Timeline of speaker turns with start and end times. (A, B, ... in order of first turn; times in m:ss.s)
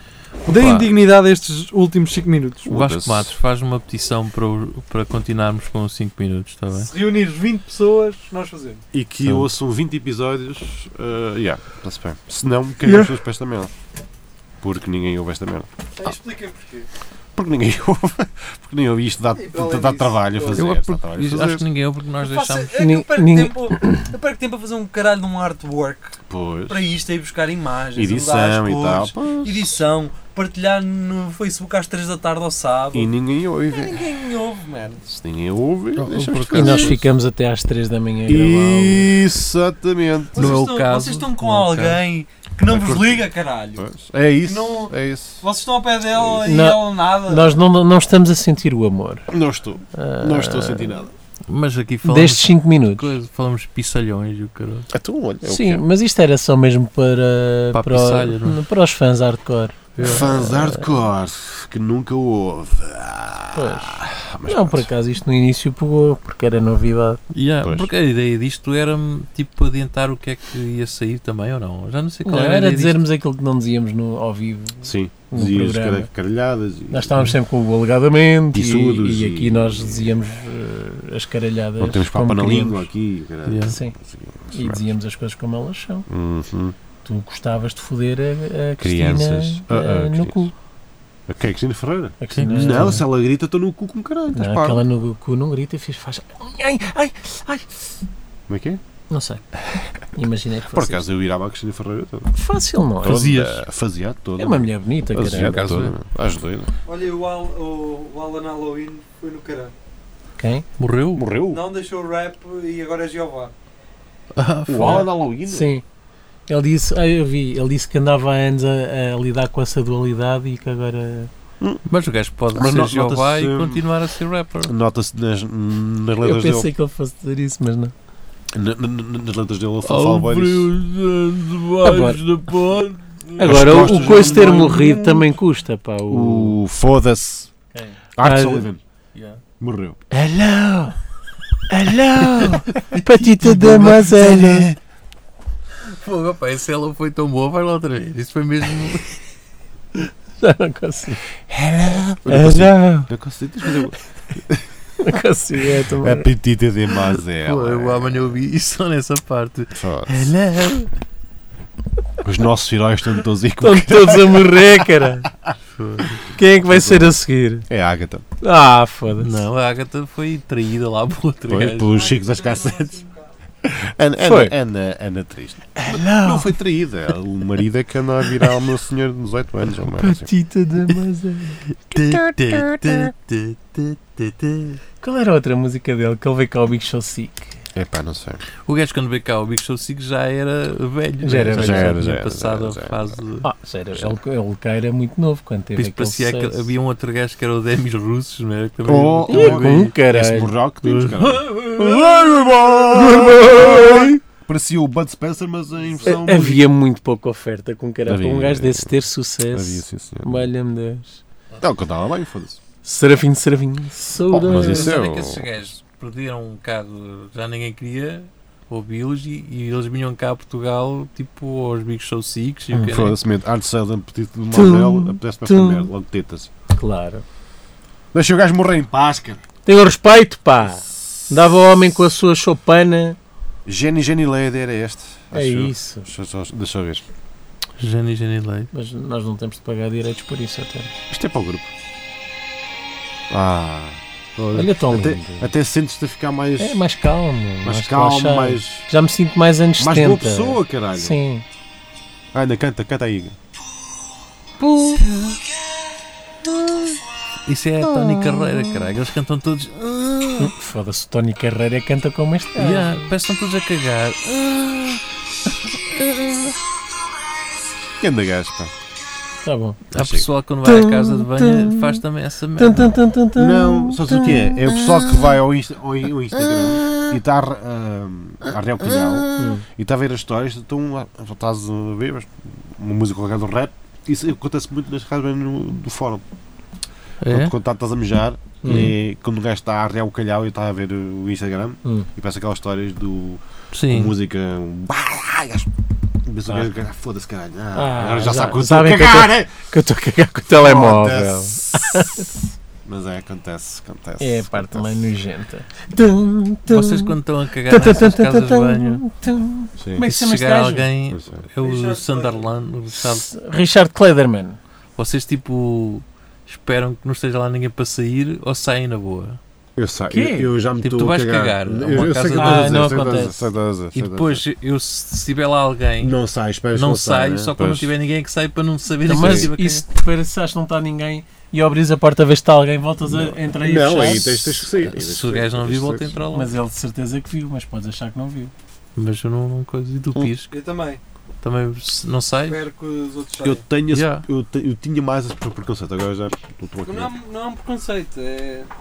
0:00.4-0:00.9 A
0:00.4-0:02.8 B
0:02.6-0:03.3 C
0:02.7-0:06.9 A
0:06.7-0:08.8 B
0:08.9-0:13.7 C
0:12.8-0:13.1 D
0:14.6-0:16.1 C
0:16.0-0:16.9 B
0:17.3-0:21.6 C
0:19.3-0:21.6 B
0:20.5-0:22.7 A
0:22.2-0:33.1 B
0:22.8-0:24.1 D
0:26.3-0:26.8 C
0:27.9-0:29.8 C
0:32.9-0:34.0 C
0:33.7-0:35.0 B
0:35.1-0:37.0 C
0:36.0-0:37.0 A
0:36.5-0:39.1 D
0:38.3-0:40.6 C
0:40.3-0:43.8 B
0:40.4-0:42.0 A
0:42.7-0:45.4 C
0:44.4-0:47.5 B
0:46.1-0:46.4 C
0:46.4-0:49.3 D
0:49.3-0:51.1 C
0:49.9-0:51.1 D
0:51.5-0:54.9 A
0:52.0-0:53.2 D
0:54.9-0:55.8 C
0:55.4-1:00.9 D
0:57.7-0:58.6 A
0:59.9-1:00.4 A
1:00.0-1:04.9 C
1:03.5-1:07.2 D
1:07.3-1:13.0 A
1:07.6-1:07.9 C
1:12.2-1:16.1 D
1:14.8-1:17.1 C
1:16.9-1:22.9 D
1:18.5-1:20.2 C
1:21.8-1:24.9 C
1:23.4-1:23.8 A
1:23.6-1:23.9 D
1:24.5-1:26.1 D
1:26.1-1:26.7 C
1:27.0-1:30.5 D
1:28.8-1:30.5 C
1:31.3-1:34.8 C
1:32.2-1:33.0 D
1:32.3-1:33.0 A
1:34.3-1:37.7 D
1:38.5-1:38.8 C
1:39.1-1:39.4 D
1:40.1-1:41.0 D
1:40.7-1:42.3 C
1:42.3-1:43.2 D
1:43.0-1:46.7 C
1:43.0-1:43.6 A
1:44.4-1:45.7 D
1:45.4-1:45.9 A
1:46.8-1:49.7 B
1:50.4-1:50.6 D
1:50.8-1:51.2 A
1:51.2-1:51.6 C
1:51.5-1:53.5 B
1:54.3-1:55.1 A
1:54.7-1:55.7 C
1:54.8-1:55.8 D
1:56.5-2:01.3 D
2:01.9-2:04.7 A
2:02.5-2:03.8 C
2:04.6-2:06.7 C
2:06.2-2:07.9 D
2:08.5-2:10.7 C
2:09.8-2:15.3 A
2:11.8-2:12.2 D
2:13.4-2:16.6 D
2:13.4-2:14.8 C
2:16.1-2:17.5 C
2:17.7-2:19.4 D
2:18.2-2:18.8 C
2:19.6-2:20.0 C
2:20.1-2:21.0 D
2:21.7-2:24.8 D
2:22.2-2:23.0 A
2:23.4-2:24.8 C
2:25.8-2:29.2 A
2:30.0-2:31.2 D
2:31.5-2:34.6 C
2:32.2-2:33.1 D
2:33.6-2:33.9 D
2:35.0-2:36.3 D
2:36.0-2:38.4 C
2:37.4-2:40.9 A
2:39.7-2:40.3 C
2:42.2-2:45.0 C
2:43.6-2:45.3 D
2:45.7-2:46.2 A
2:46.3-2:47.7 D
2:46.6-2:48.2 C
2:48.4-2:49.3 D
2:49.2-2:51.9 A
2:51.5-2:53.0 C
2:52.0-2:53.2 B
2:53.6-3:00.3 C
2:54.2-2:54.5 D
2:55.8-2:56.5 D
3:00.0-3:01.6 D
3:01.8-3:04.8 A
3:02.0-3:03.1 C
3:05.0-3:07.5 D
3:07.7-3:08.4 C
3:08.6-3:13.4 A
3:11.2-3:12.0 D
3:11.5-3:13.1 C
3:13.4-3:16.6 D
3:15.7-3:20.0 A
3:18.8-3:26.6 C
3:19.3-3:20.5 D
3:20.8-3:22.1 A
3:23.0-3:24.1 D
3:26.0-3:31.2 D
3:28.0-3:28.9 C
3:29.5-3:30.4 C
3:31.6-3:32.6 C
3:32.8-3:34.9 D
3:34.3-3:35.5 C
3:34.5-3:43.2 A
3:42.9-3:46.5 C
3:44.5-3:45.9 D
3:46.7-3:47.2 D
3:48.1-3:49.4 C
3:49.6-3:53.2 D
3:53.6-3:57.0 C
3:55.3-3:56.1 D
3:57.8-3:58.7 A
3:58.7-4:00.9 D
4:01.1-4:01.7 C
4:03.3-4:06.8 C
4:04.5-4:05.5 D
4:06.6-4:11.4 D
4:07.6-4:08.9 C
4:09.8-4:11.2 C
4:12.3-4:13.3 C
4:14.6-4:15.0 D
4:14.9-4:15.4 A
4:17.4-4:20.5 A
4:18.1-4:18.8 C
4:20.4-4:23.1 D
4:22.6-4:25.0 A
4:25.7-4:26.5 A
4:28.0-4:28.7 C
4:29.4-4:29.8 D
4:29.9-4:30.3 C
4:29.9-4:33.0 A
4:30.6-4:32.0 D
4:32.6-4:35.2 D
4:33.4-4:46.2 C
4:39.3-4:39.6 D
4:47.2-4:47.5 A
4:47.3-4:55.7 C
4:48.6-4:48.9 D
4:48.7-4:48.9 A
4:53.7-4:54.1 A
4:56.2-4:59.5 C
4:57.7-5:02.3 D
5:00.5-5:02.2 C
5:02.8-5:05.1 C
5:04.2-5:10.9 D
5:06.7-5:09.0 A
5:09.8-5:10.0 C
5:10.0-5:13.3 A
5:11.1-5:11.4 C
5:11.6-5:12.5 B
5:13.0-5:14.6 D
5:15.0-5:19.4 A
5:19.8-5:24.4 C
5:20.1-5:20.5 D
5:20.8-5:22.8 A
5:22.4-5:23.4 D
5:23.9-5:26.2 A
5:26.0-5:27.9 C
5:26.7-5:29.8 A
5:29.0-5:34.8 D
5:29.1-5:29.5 C
5:33.1-5:36.2 C
5:34.9-5:36.5 A
5:36.3-5:38.5 D
5:39.0-5:40.5 A
5:40.5-5:41.0 B
5:41.4-5:42.6 A
5:42.5-5:43.6 B
5:43.4-5:47.1 C
5:43.9-5:44.2 A
5:46.8-5:48.7 B